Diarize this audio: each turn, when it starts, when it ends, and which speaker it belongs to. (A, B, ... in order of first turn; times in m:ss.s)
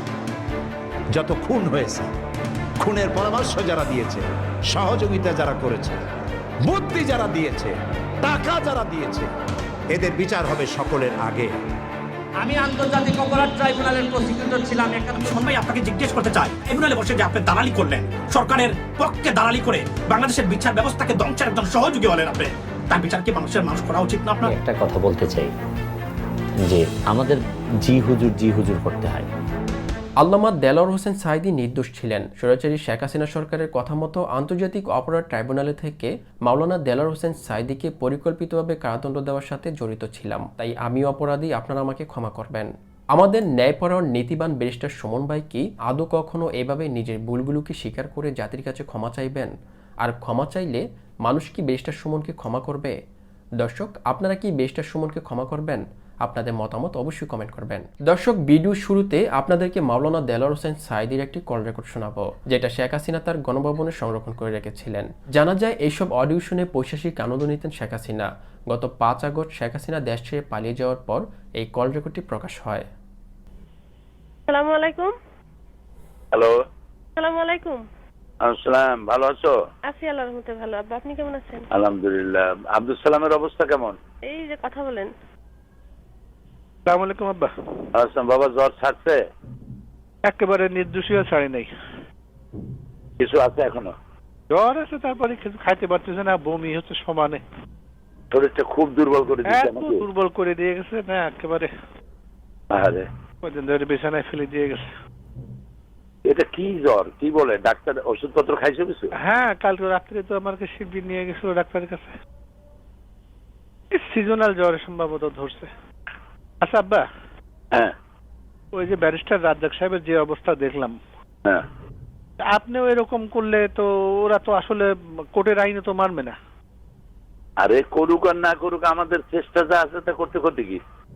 0:01.1-0:02.1 A
0:02.8-0:06.0 A
0:06.6-0:09.3 A
0:09.9-0:11.5 A
0:12.4-0:15.4 B
0:15.2-0:24.5 C
0:24.4-0:25.5 D
0:26.7-0:29.3 D
0:30.2-0:53.0 E
0:53.6-1:12.9 E
1:14.5-1:15.1 F
1:16.3-1:16.6 G
1:17.2-1:17.8 F
1:18.4-1:19.6 G
1:19.8-1:21.6 F
1:21.7-1:24.0 G
1:24.3-1:25.1 F
1:26.9-1:27.5 H
1:27.9-1:29.2 G
1:30.3-1:31.7 H
1:33.2-1:33.9 G
1:34.5-1:37.4 H
1:38.3-1:40.0 G
1:39.5-1:41.7 H
1:42.7-1:43.1 G
1:43.4-1:44.9 H
1:46.2-1:49.1 G
1:49.2-1:52.1 H
1:53.9-1:55.7 H
1:56.6-1:57.1 H
1:58.7-2:01.0 H
2:02.5-2:06.4 H
2:07.6-2:10.8 G